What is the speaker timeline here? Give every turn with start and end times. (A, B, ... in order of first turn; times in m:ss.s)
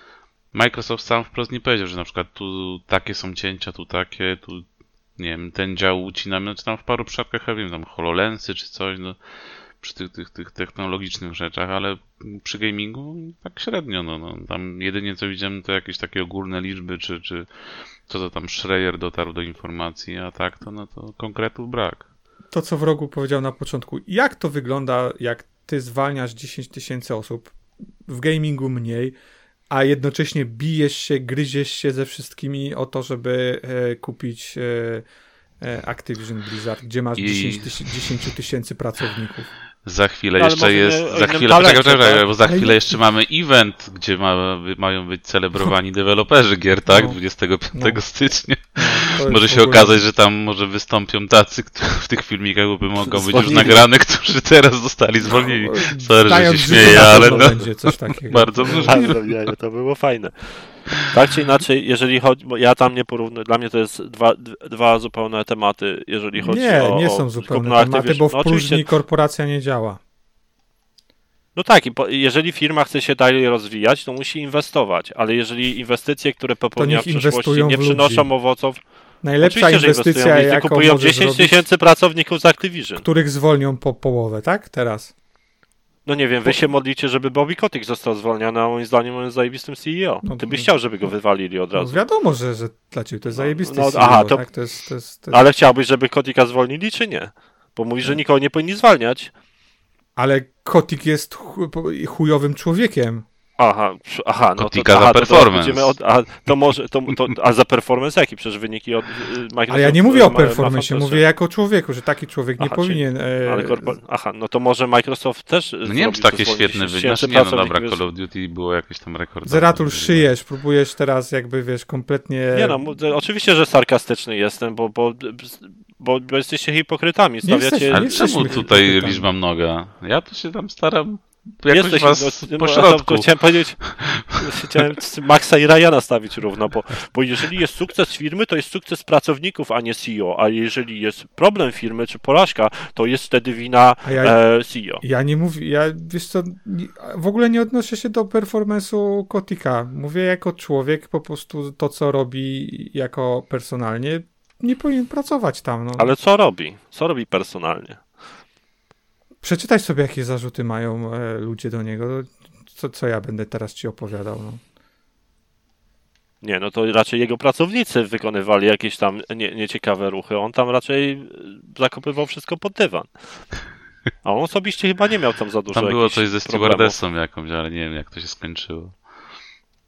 0:00.5-0:09.2 A
0:09.8-0:22.1 A
0:22.5-0:27.6 B
0:28.1-0:29.2 B
0:29.7-0:35.0 B
0:35.6-0:39.5 B
0:37.2-0:37.9 A
0:39.8-0:59.3 A
0:40.4-0:42.3 C
0:42.4-0:42.8 B
0:46.9-0:48.0 B
0:48.8-0:50.0 B
0:53.1-0:53.9 C
0:55.2-0:59.2 B
0:56.8-0:57.5 C
0:58.8-1:08.9 C
1:06.4-1:10.0 B
1:11.6-1:18.8 C
1:16.8-1:18.4 B
1:19.2-1:21.7 B
1:19.4-1:23.0 C
1:23.0-1:25.1 B
1:26.1-1:32.0 C
1:30.2-1:30.7 B
1:31.7-1:35.4 B
1:33.3-1:34.4 C
1:35.3-1:39.3 C
1:40.2-1:43.2 B
1:43.6-1:51.2 C
1:44.6-1:46.0 A
1:49.7-1:54.0 B
1:52.6-1:58.0 C
1:55.8-2:00.3 A
1:59.4-2:02.8 B
2:02.5-2:08.6 C
2:07.4-2:09.2 B
2:07.9-2:14.2 A
2:11.7-2:25.0 C
2:24.0-2:36.2 B
2:36.0-2:38.0 C
2:39.4-2:44.6 B
2:46.4-2:53.2 C
2:54.2-2:57.0 C
2:55.7-2:59.0 A